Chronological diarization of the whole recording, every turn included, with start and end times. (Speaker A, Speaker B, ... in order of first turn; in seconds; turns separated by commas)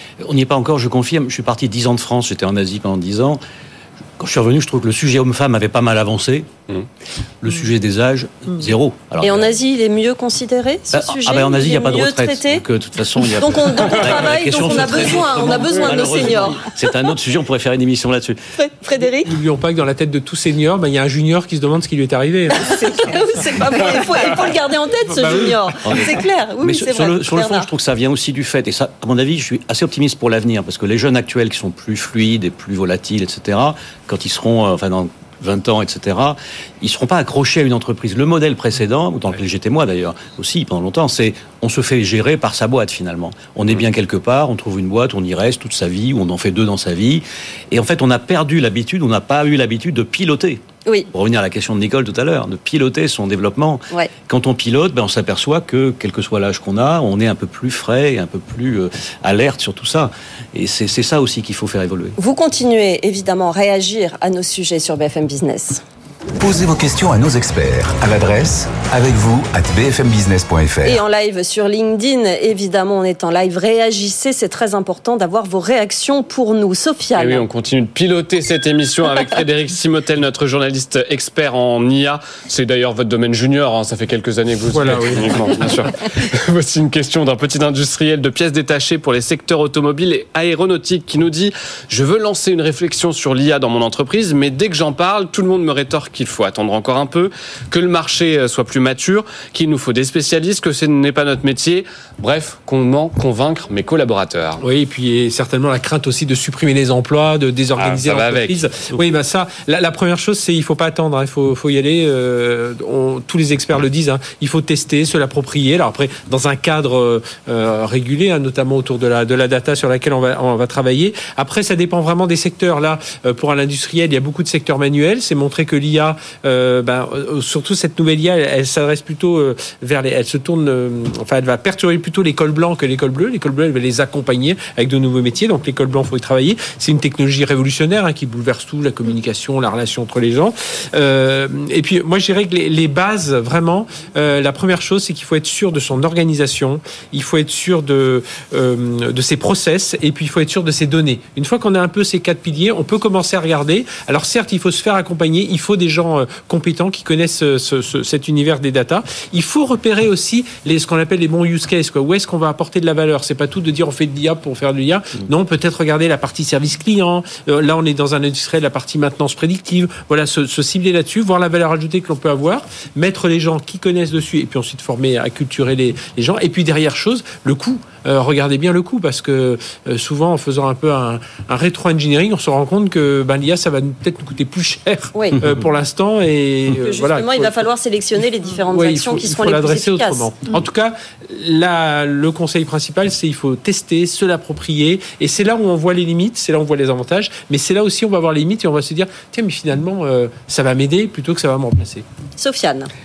Speaker A: 0.2-3.4, Speaker A: 4.2-6.5, Speaker A: 7.4-9.5, Speaker B: 9.2-12.6, Speaker A: 10.9-18.4, Speaker B: 13.2-16.6, Speaker B: 18.5-19.3, Speaker C: 19.2-22.8, Speaker B: 22.6-27.7, Speaker C: 25.1-26.0, Speaker A: 25.8-62.1, Speaker B: 62.2-65.8, Speaker D: 66.4-71.0, Speaker B: 70.8-77.4, Speaker E: 77.2-104.6, Speaker C: 84.7-85.9, Speaker C: 104.6-187.7, Speaker E: 107.8-108.7, Speaker B: 185.1-185.4, Speaker B: 186.8-190.3, Speaker C: 188.7-202.0, Speaker B: 202.4-202.9